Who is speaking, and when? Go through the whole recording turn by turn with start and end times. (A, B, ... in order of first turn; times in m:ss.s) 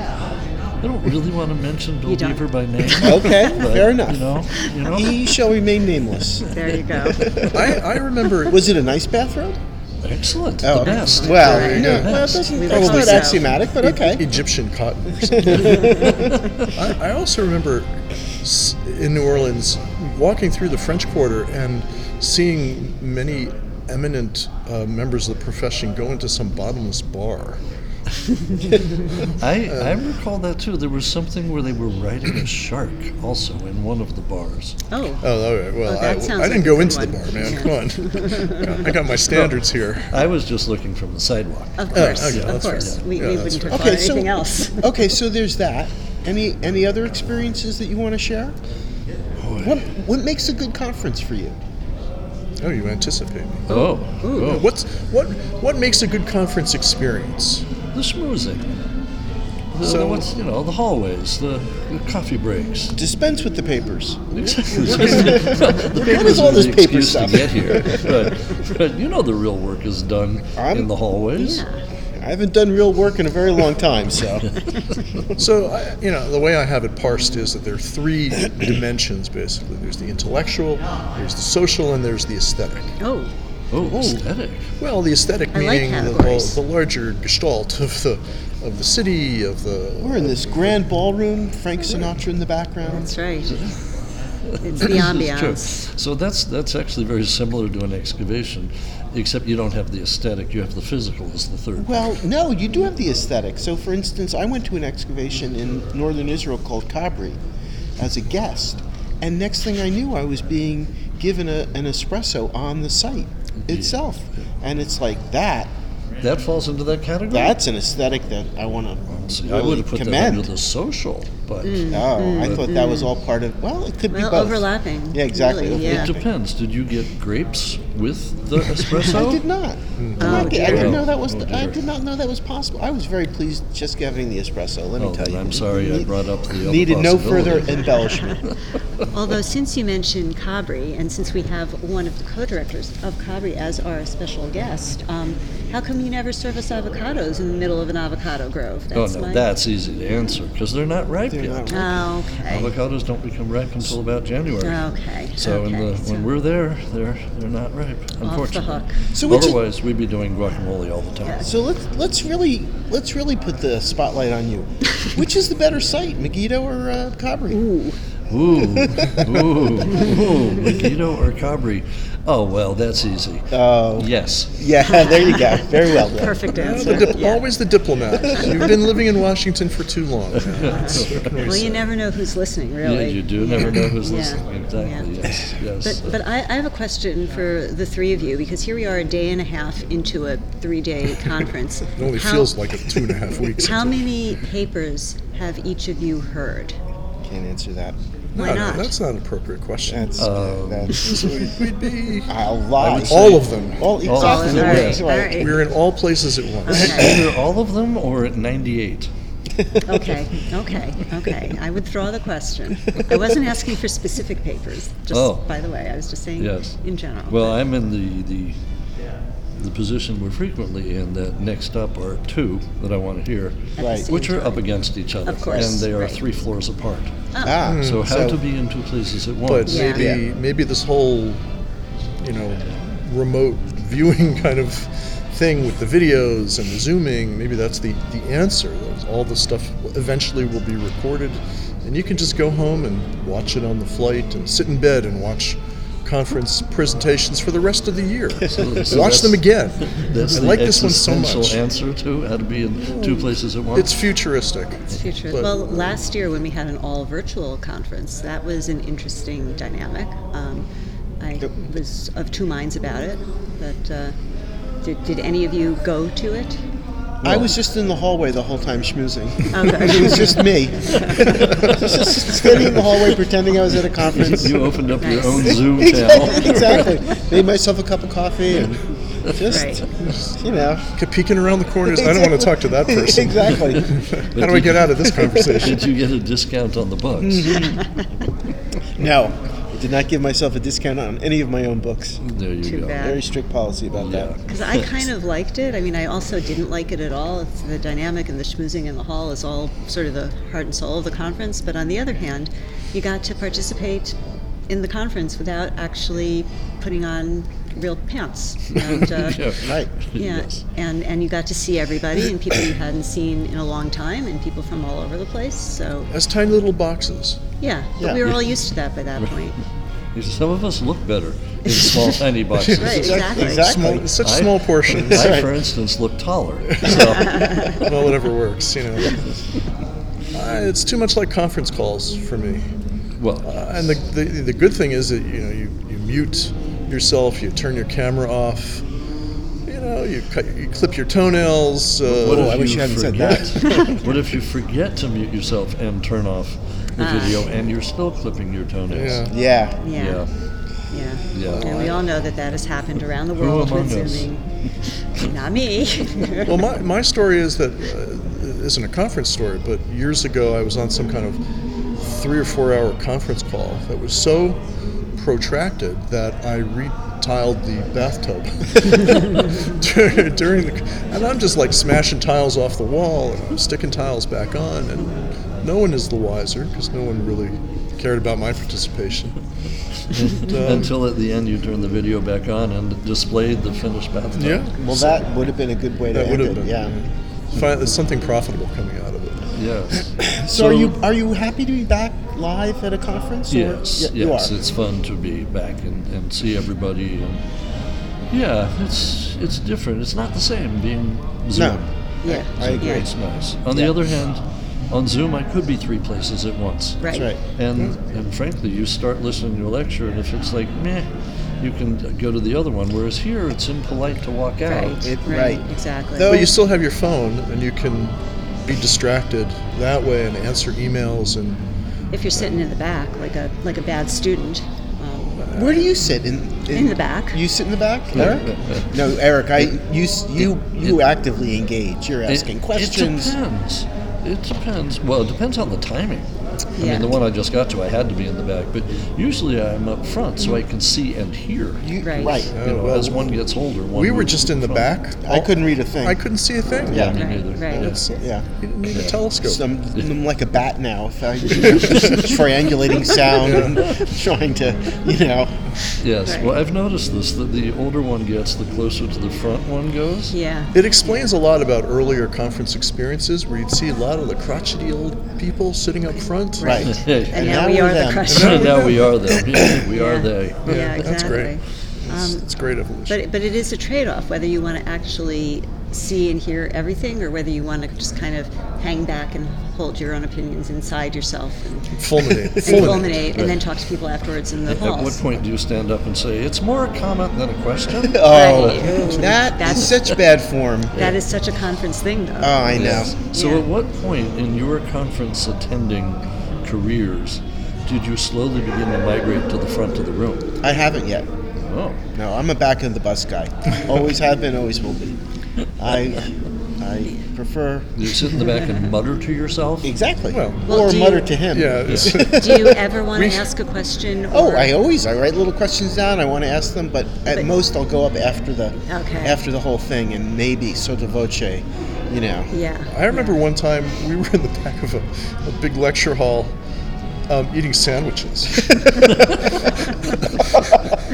0:00.8-0:05.4 A
0:02.0-0:03.6 B
0:03.0-0:07.7 C
0:06.5-0:07.4 B
0:07.2-0:07.5 A
0:07.5-0:08.7 D
0:08.4-0:09.6 C
0:10.0-0:12.3 A
0:10.6-0:14.2 C
0:10.7-0:13.5 B
0:11.3-0:27.6 D
0:15.2-0:16.3 C
0:28.7-0:30.0 D
0:29.4-0:34.8 A
0:34.9-0:35.2 B
0:35.2-0:40.1 D
0:35.8-0:38.9 B
0:39.3-0:43.0 A
0:41.8-0:44.9 B
0:41.9-0:44.0 D
0:43.7-0:48.6 C
0:49.4-0:49.8 A
0:49.6-0:51.6 C
0:52.6-0:53.8 D
0:53.7-0:54.7 A
0:53.7-0:54.6 B
0:54.4-0:57.6 D
0:57.9-0:58.7 A
0:59.7-1:02.9 A
0:59.8-1:00.3 D
1:02.9-1:08.3 C
1:04.3-1:11.6 A
1:04.8-1:05.6 D
1:10.6-1:10.9 C
1:11.4-1:11.8 B
1:12.2-1:14.5 C
1:15.4-1:22.9 D
1:23.0-1:23.3 B
1:23.7-1:24.7 A
1:23.9-1:24.2 D
1:24.8-1:30.8 D
1:25.5-1:26.6 B
1:30.0-1:33.1 C
1:32.9-1:33.6 B
1:33.5-1:33.8 A
1:34.5-1:42.0 A
1:34.6-1:35.8 B
1:41.8-1:47.4 C
1:48.0-1:55.7 C
1:53.6-1:54.0 A
1:56.2-1:57.6 A
1:57.3-2:00.5 C
1:59.1-2:02.6 A
2:01.6-2:03.1 B
2:01.9-2:06.2 C
2:04.1-2:06.1 B
2:05.8-2:09.4 A
2:09.0-2:18.4 C
2:10.0-2:10.4 D
2:10.2-2:11.0 B
2:10.2-2:11.8 A
2:15.0-2:17.9 A
2:18.0-2:18.4 B
2:19.1-2:29.4 B
2:28.9-2:31.9 A
2:31.3-2:32.0 C
2:31.7-2:32.7 B
2:32.4-2:34.8 A
2:34.6-2:36.3 B
2:35.4-2:41.5 A
2:38.2-2:39.0 B
2:39.1-2:39.6 C
2:41.4-2:47.6 C
2:47.5-2:48.0 B
2:48.3-2:54.5 A
2:48.6-2:50.0 C
2:53.5-2:57.1 C
2:54.8-2:55.6 B
2:56.1-2:57.4 B
2:56.5-3:01.8 D
3:00.4-3:01.5 A
3:00.8-3:05.1 B
3:02.8-3:06.2 A
3:05.8-3:12.6 B
3:11.9-3:14.0 D
3:13.6-3:16.8 B
3:17.2-3:18.0 C
3:18.3-3:20.1 D
3:18.4-3:18.9 B
3:19.9-3:21.4 C
3:20.2-3:21.1 A
3:21.0-3:23.9 D
3:22.3-3:25.6 C
3:22.8-3:25.0 A
3:24.2-3:25.6 B
3:25.3-3:27.1 D
3:26.6-3:27.1 B
3:26.7-3:29.1 A
3:29.8-3:37.6 B
3:35.1-3:35.4 A
3:36.4-3:36.8 A
3:37.3-3:38.6 A
3:39.6-3:47.1 A
3:43.8-3:44.6 B
3:43.8-3:44.1 C
3:45.2-3:46.2 B
3:45.5-3:45.8 C
3:47.3-3:47.6 B
3:47.4-3:48.4 C
3:47.6-3:48.0 D
3:47.6-3:50.1 A
3:49.4-3:51.4 D
3:49.7-3:50.0 B
3:49.7-3:50.2 C
3:52.2-4:11.6 D
4:08.4-4:14.1 A
4:13.7-4:15.9 D
4:14.8-4:20.6 B
4:21.2-4:24.1 B
4:24.8-4:26.6 B
4:27.2-4:34.8 C
4:27.2-4:27.5 A
4:29.5-4:31.3 B
4:31.2-4:32.9 A
4:34.1-4:37.0 A
4:35.0-4:35.6 B
4:35.5-4:40.8 C
4:36.3-4:36.9 B
4:39.4-4:39.8 B
4:40.9-4:45.9 D
4:41.8-4:44.0 C
4:44.3-4:47.7 A
4:47.1-4:47.8 C
4:49.0-4:52.2 C
4:52.2-4:53.2 A
4:52.6-4:53.2 B
4:53.0-4:54.3 C
4:53.9-4:54.9 A
4:54.5-5:04.2 B
5:04.7-5:16.1 B
5:08.7-5:10.6 A
5:09.6-5:09.9 C
5:16.1-5:17.4 D
5:17.6-5:19.6 B
5:20.1-5:23.5 A
5:21.7-5:22.1 B
5:22.6-5:25.4 D
5:22.7-5:23.7 B
5:22.8-5:24.2 C
5:24.2-5:27.9 A
5:25.1-5:25.5 C
5:26.8-5:29.2 D
5:26.9-5:27.8 B
5:30.3-5:32.7 D
5:33.2-5:33.5 A
5:33.4-5:38.8 D
5:39.6-5:42.8 D
5:42.1-5:49.3 A
5:42.1-5:44.1 C
5:47.0-5:47.4 B
5:48.9-5:49.3 D
5:49.3-5:49.8 C
5:49.8-5:50.2 B
5:49.9-5:50.3 A
5:50.9-5:54.4 B
5:51.3-5:51.9 A
5:51.5-5:51.9 C
5:53.3-5:54.3 A
5:55.1-5:56.5 B
5:56.4-6:01.4 D
6:02.0-6:04.6 D
6:05.1-6:19.4 D
6:20.1-6:25.1 A
6:20.3-6:20.9 D
6:24.3-6:24.8 D
6:24.8-6:27.0 C
6:26.1-6:26.9 D
6:27.5-6:29.5 D
6:29.5-6:30.9 A
6:30.2-6:34.5 C
6:33.5-6:37.4 A
6:38.3-6:41.9 A
6:41.5-6:43.0 C
6:42.2-6:43.1 B
6:42.4-6:47.0 A
6:47.0-6:47.3 B
6:47.1-6:47.4 C
6:47.5-6:51.1 A
6:51.6-6:55.0 A
6:54.6-6:56.4 B
6:55.0-6:56.5 C
6:56.2-7:01.6 D
7:02.1-7:05.8 B
7:05.4-7:05.8 D
7:05.5-7:13.4 C
7:06.7-7:07.4 B
7:08.1-7:08.9 A
7:10.4-7:11.0 A
7:12.3-7:24.9 A
7:16.8-7:17.1 B
7:21.8-7:22.5 C
7:22.0-7:22.4 B
7:22.5-7:23.4 D
7:23.9-7:29.6 D
7:25.2-7:26.2 C
7:26.9-7:28.0 A
7:26.9-7:28.4 C
7:27.2-7:27.8 B
7:28.9-7:29.2 A
7:29.4-7:35.6 C
7:31.9-7:32.3 D
7:33.4-7:33.8 D
7:36.0-7:40.3 A
7:36.2-7:36.5 B
7:40.3-7:41.2 B
7:40.7-7:46.9 D
7:46.6-7:48.9 B
7:46.6-7:48.5 C
7:46.9-7:47.6 A
7:48.2-7:51.4 A
7:48.3-7:49.1 D
7:49.5-7:49.8 C
7:49.9-7:52.4 B
7:50.6-7:51.6 D
7:52.1-7:53.2 D
7:53.1-8:02.0 B
8:02.0-8:03.2 D
8:02.6-8:05.3 B
8:03.3-8:03.6 A
8:04.6-8:09.1 A
8:08.0-8:11.1 C
8:08.3-8:10.0 B
8:10.9-8:13.6 B
8:12.4-8:13.1 C
8:12.7-8:20.5 A
8:20.6-8:21.3 C
8:21.6-8:22.0 A
8:22.1-8:25.2 C
8:25.8-8:27.9 C
8:28.0-8:29.9 A
8:29.8-8:32.8 C
8:30.3-8:30.9 D
8:30.7-8:31.4 B
8:31.5-8:33.5 D
8:31.8-8:32.2 A
8:32.3-8:34.7 B
8:34.3-8:42.5 C
8:38.8-8:39.4 B
8:42.5-8:43.4 B
8:42.9-8:46.5 D
8:47.3-8:49.6 D